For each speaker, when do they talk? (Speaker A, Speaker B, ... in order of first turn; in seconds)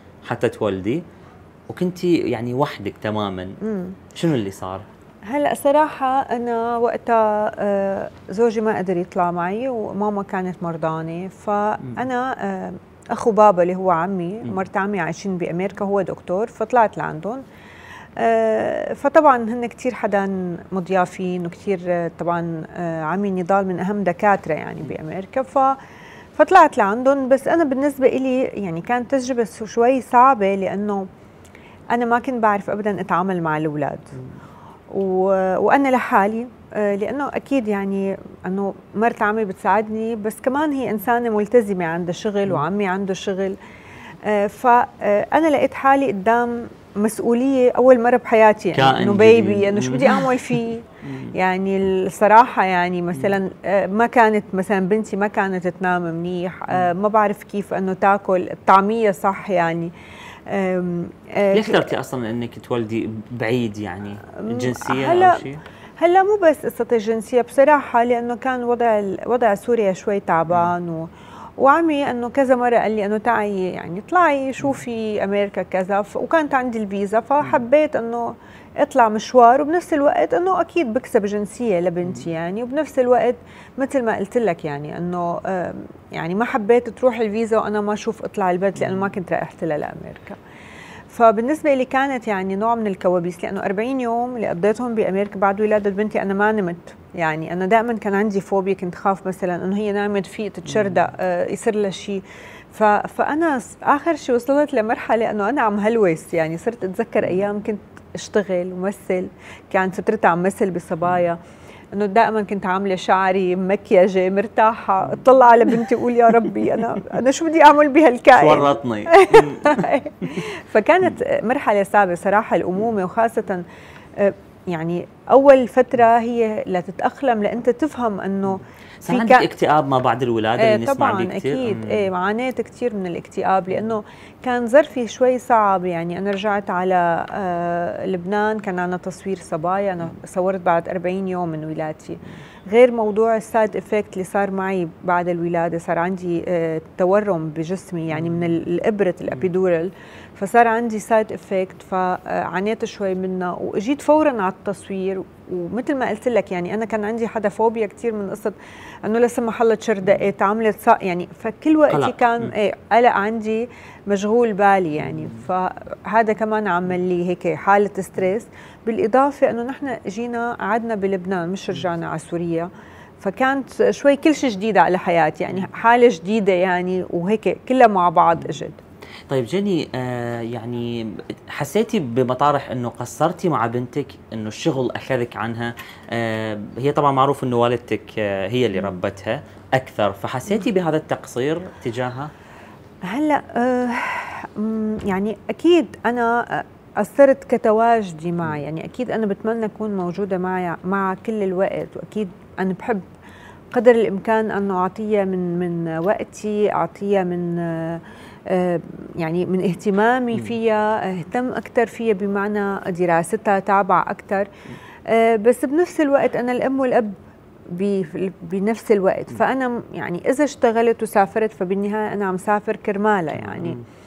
Speaker A: 0.2-1.0, 1.7-3.6, 4.1-4.8, 48.7-51.3, 61.5-65.6, 88.8-89.1, 100.7-101.0, 118.3-119.9, 128.5-132.0, 161.9-162.5, 179.3-192.3, 223.3-223.8
Speaker B: 3.6-4.0, 5.2-17.4, 18.2-25.8, 26.3-31.1, 31.9-34.1, 34.9-43.6, 44.2-59.9, 60.5-61.8, 64.3-65.5, 66.0-90.4, 91.1-111.4, 111.9-123.6, 124.2-129.5, 130.6-178.8, 193.1-203.0, 203.7-214.5, 215.1-217.1, 217.7-223.8